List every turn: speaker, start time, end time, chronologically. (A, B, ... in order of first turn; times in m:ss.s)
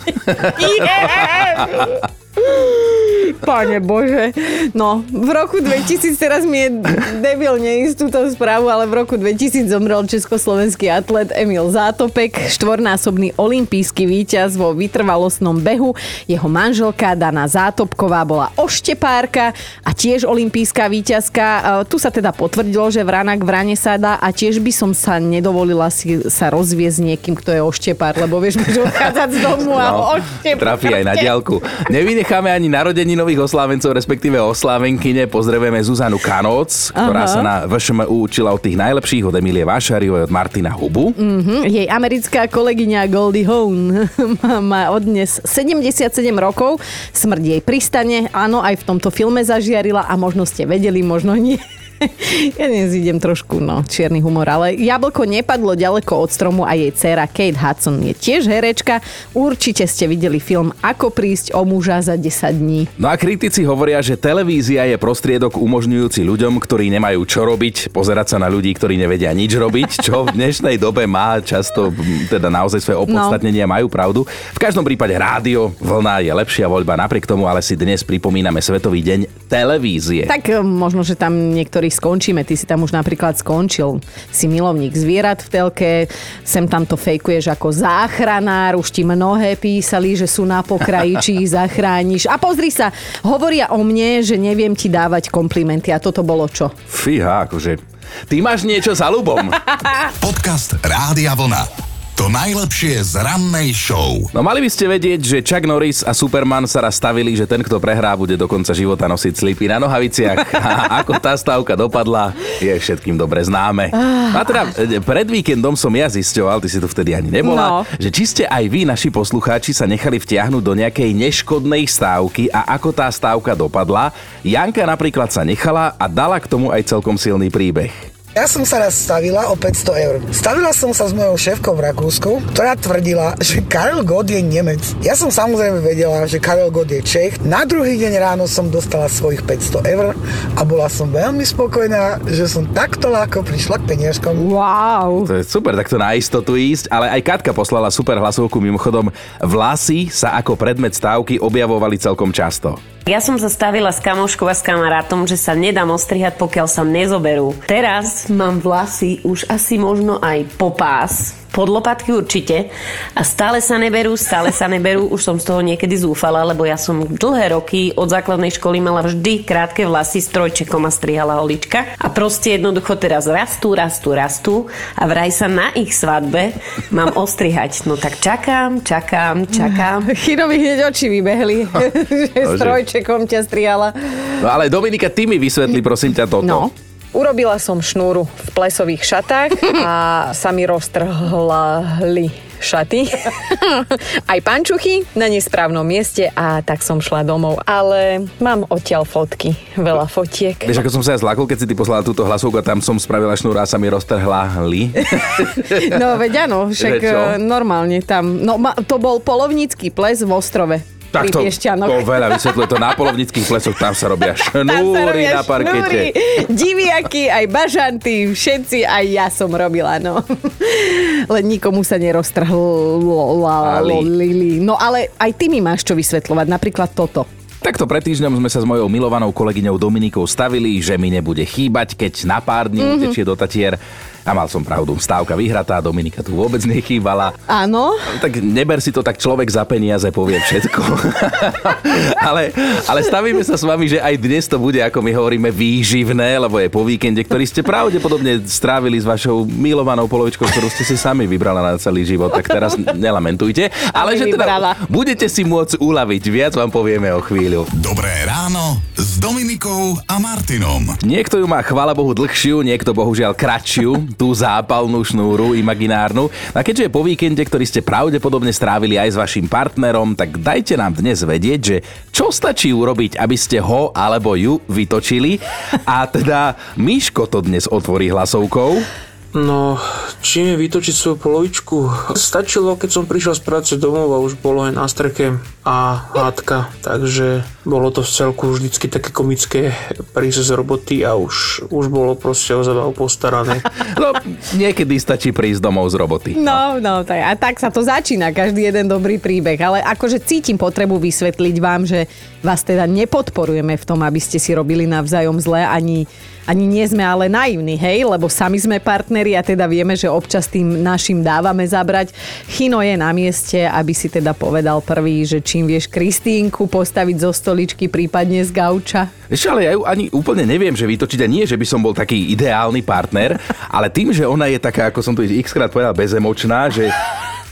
0:00.2-0:01.9 A
0:00.5-0:31.3 B
0:29.8-0:41.2 A
0:37.0-0:37.5 B
0:41.2-1:02.9 B
1:03.0-1:20.3 A
1:13.1-1:13.4 B
1:20.3-1:36.7 B
1:36.9-1:37.8 A
1:38.3-1:39.8 A
1:40.2-1:44.3 C
1:44.3-2:07.9 A
1:54.1-1:54.4 B
1:57.4-1:57.9 B
2:08.4-2:24.5 D
2:24.4-2:25.3 B
2:25.2-2:32.8 A
2:33.1-3:00.1 E
3:00.0-3:04.4 B
3:02.4-3:02.8 A
3:04.4-3:06.7 A
3:06.4-3:20.7 B
3:20.6-3:26.0 A
3:25.4-3:32.9 B
3:26.8-3:27.4 A
3:31.1-3:36.1 A
3:34.5-3:47.3 B
3:43.6-3:44.1 A
3:47.6-3:57.4 A
3:52.8-3:53.2 B
3:57.5-3:58.0 B
3:58.1-4:17.7 A
4:13.9-4:14.8 B
4:17.7-4:21.0 C
4:21.0-4:38.9 A
4:39.3-4:53.6 F
4:53.8-4:56.6 A
4:56.4-5:19.1 B
5:19.3-5:26.9 A